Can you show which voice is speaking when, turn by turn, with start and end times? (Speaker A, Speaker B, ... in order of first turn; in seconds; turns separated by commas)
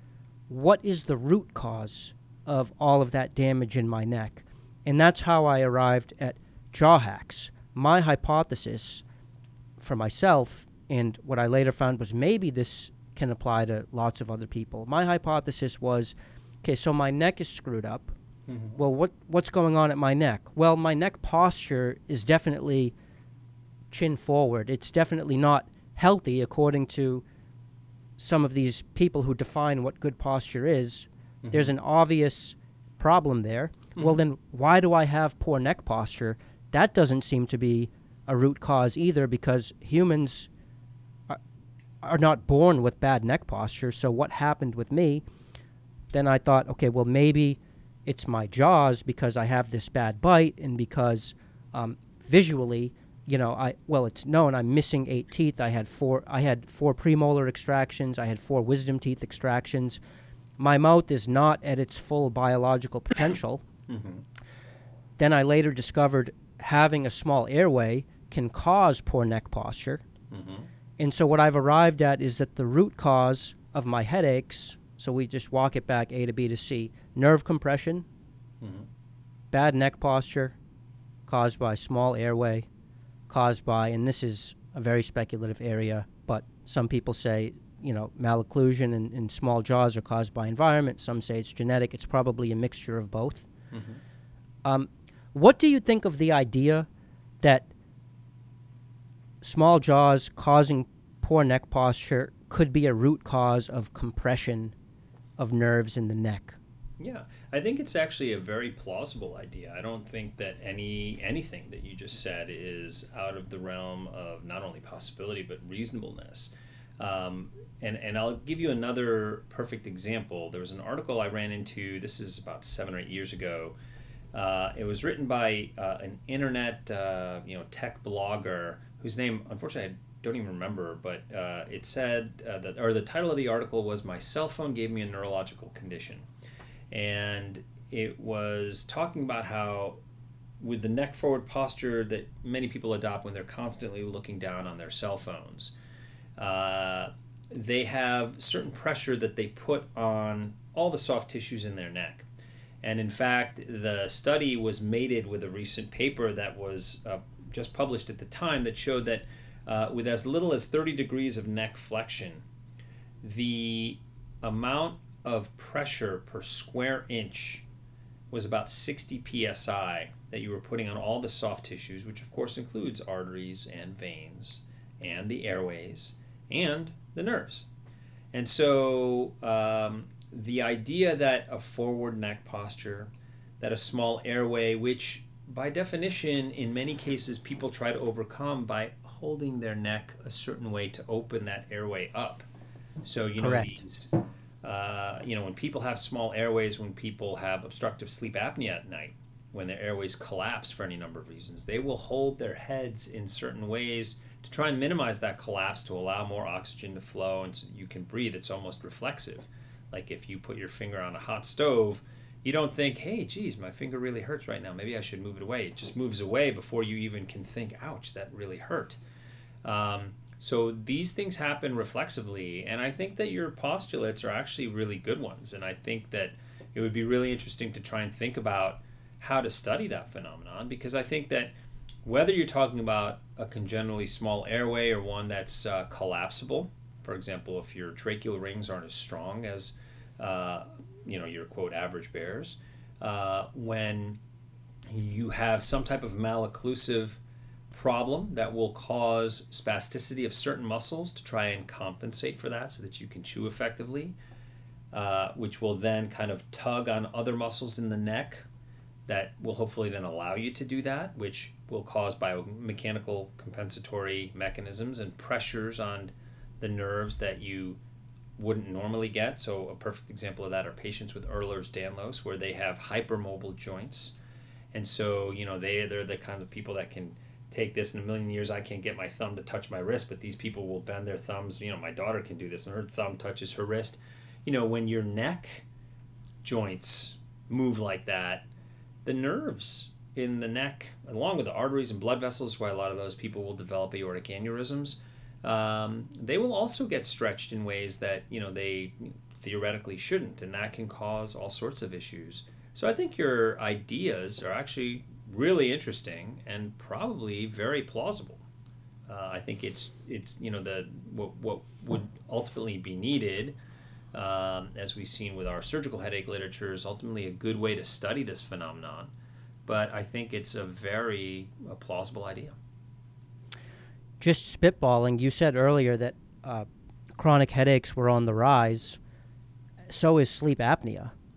Speaker A: 0.5-9.0, Speaker A: 9.8-18.1, Speaker B: 18.5-18.8, Speaker A: 18.8-22.9, Speaker A: 23.9-27.2, Speaker A: 28.2-40.5, Speaker B: 31.4-31.7, Speaker A: 42.0-45.2, Speaker A: 46.1-60.0, Speaker A: 60.6-63.6, Speaker B: 63.9-64.2, Speaker A: 65.2-70.0, Speaker B: 70.3-70.7, Speaker A: 71.0-78.0, Speaker B: 78.6-78.9, Speaker A: 79.5-80.5, Speaker A: 81.3-82.7, Speaker A: 83.3-93.5, Speaker B: 93.7-94.0, Speaker A: 94.6-96.9, Speaker A: 97.4-97.7, Speaker A: 99.4-104.7, Speaker A: 105.4-106.6, Speaker B: 107.0-123.8, Speaker B: 124.3-136.2, Speaker B: 136.9-140.0, Speaker B: 140.6-145.7, Speaker B: 146.4-152.3, Speaker B: 152.8-162.4, Speaker B: 163.2-167.6, Speaker B: 168.3-177.7, Speaker B: 178.3-192.4, Speaker B: 193.0-194.1, Speaker A: 193.4-193.8, Speaker B: 194.6-219.0, Speaker B: 219.6-231.5, Speaker B: 232.0-244.2, Speaker B: 244.9-254.2, Speaker B: 254.9-258.4, Speaker B: 259.1-267.8, Speaker B: 268.4-274.1, Speaker B: 274.7-285.6, Speaker B: 286.4-288.5, Speaker B: 289.0-308.4, Speaker B: 309.1-313.6, Speaker B: 314.1-319.1, Speaker B: 319.6-322.6, Speaker A: 324.2-326.6, Speaker A: 327.2-329.0, Speaker A: 329.9-331.1